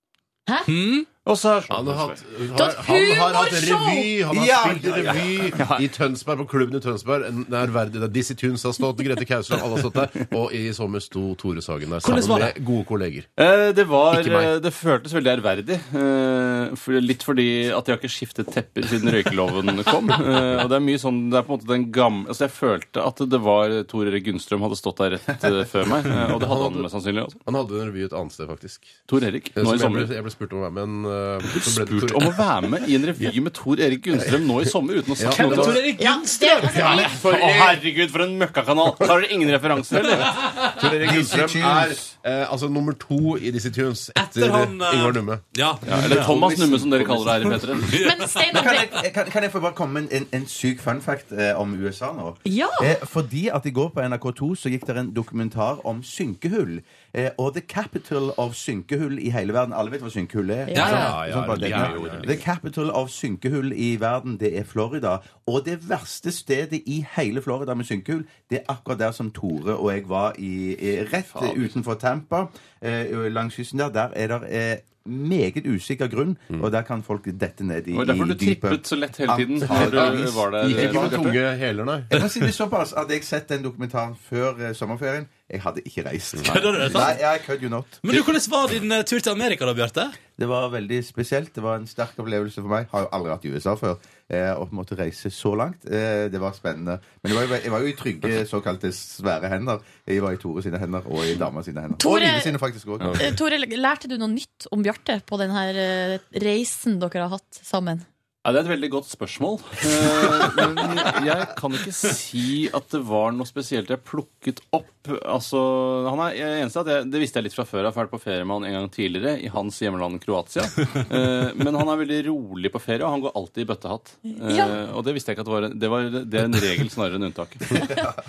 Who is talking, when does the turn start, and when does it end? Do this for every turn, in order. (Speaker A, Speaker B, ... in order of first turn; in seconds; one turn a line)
Speaker A: 0.7-1.1
Speaker B: 1.2-2.2
Speaker C: 1.7-13.3
Speaker D: 2.6-4.1
Speaker E: 4.3-5.5
Speaker B: 5.1-5.9
Speaker A: 12.0-12.6
Speaker B: 13.4-27.4
Speaker C: 14.1-14.5
Speaker C: 26.1-26.9
Speaker C: 27.4-32.5
Speaker B: 29.1-30.1
Speaker B: 31.5-35.8
Speaker C: 35.2-36.0
Speaker A: 35.3-36.9
Speaker D: 36.0-37.2
Speaker C: 36.6-37.8
Speaker B: 37.1-40.4
Speaker C: 40.0-46.8
Speaker E: 40.8-42.1
Speaker A: 44.2-46.4
Speaker B: 45.9-47.9
Speaker E: 45.9-47.5
Speaker C: 47.3-47.6
Speaker A: 47.8-48.5
Speaker D: 48.0-49.0
Speaker E: 48.5-81.3
Speaker D: 52.5-52.9
Speaker D: 60.7-61.1
Speaker A: 60.8-61.0
Speaker C: 60.8-62.4
Speaker B: 61.7-62.4
Speaker B: 71.3-71.7
Speaker B: 77.9-81.4
Speaker C: 79.6-82.2
Speaker E: 82.1-88.3
Speaker A: 86.5-87.2
Speaker A: 88.0-90.2
Speaker E: 90.4-103.2
Speaker D: 102.0-102.6
Speaker D: 103.2-108.1
Speaker B: 108.4-127.6
Speaker D: 124.4-124.8